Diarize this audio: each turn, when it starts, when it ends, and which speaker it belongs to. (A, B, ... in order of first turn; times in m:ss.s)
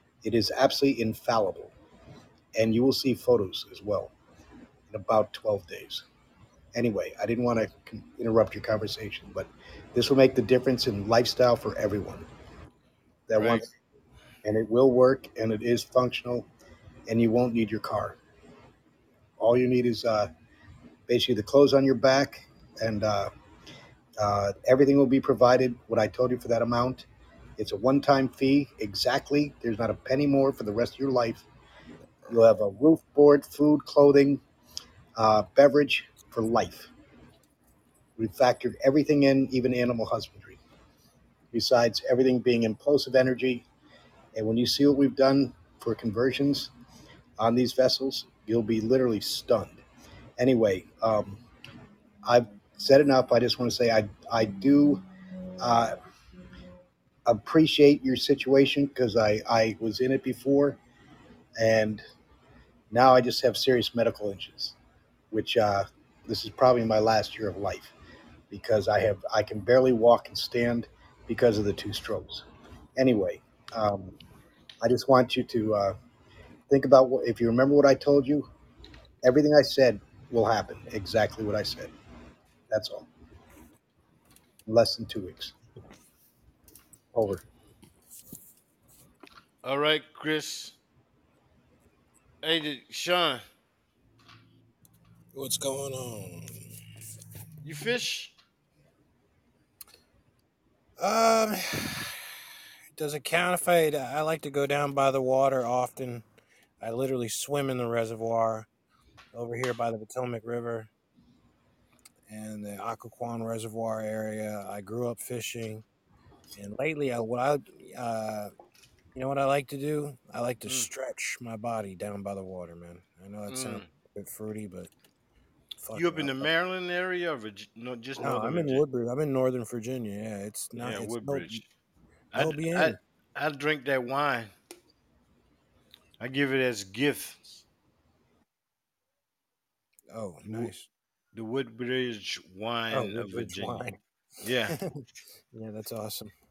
0:00.2-0:01.7 A
0:02.6-0:04.1 A
0:04.9-0:06.0 A
0:06.7-0:12.3 A
0:13.3-0:13.7 A
0:13.4-0:13.6 B
0:14.4-0:16.5 A
0:17.1-0:18.2 A
0:19.4-0:20.3 A
0:21.1-0:23.3 A
0:24.2-0:27.1 A
0:27.6-0:31.5 A
0:32.3-0:34.4 A
0:35.2-0:36.9 A
0:38.2-0:40.6 A
0:41.5-0:43.7 A
0:44.3-0:46.7 A
0:47.4-0:49.8 A
0:50.4-0:51.4 A
0:52.2-0:55.0 A
0:55.6-0:55.9 A
0:57.3-1:00.8 A
1:01.6-1:02.0 A
1:02.9-1:04.8 A
1:05.3-1:07.9 A
1:08.5-1:12.4 A
1:13.0-1:14.2 A
1:14.8-1:16.0 A
1:16.7-1:18.5 A
1:19.2-1:21.9 A
1:22.7-1:23.1 A
1:24.7-1:25.6 A
1:27.1-1:27.4 A
1:29.6-1:30.8 B
1:32.4-1:33.4 B
1:35.3-1:36.7 C
1:37.6-1:38.3 B
1:41.0-1:42.3 C
1:43.0-1:46.2 C
1:46.8-1:48.7 C
1:49.3-1:50.9 C
1:52.3-1:55.8 C
1:56.6-1:58.5 C
1:59.2-2:04.9 C
2:03.5-2:03.9 B
2:05.8-2:06.5 C
2:06.0-2:08.8 B
2:08.2-2:11.6 C
2:10.8-2:11.6 B
2:12.3-2:14.5 B
2:12.4-2:13.0 C
2:16.2-2:17.4 B
2:20.1-2:20.9 C
2:21.3-2:23.9 B
2:22.9-2:24.0 C
2:24.4-2:24.8 B
2:24.7-2:26.3 C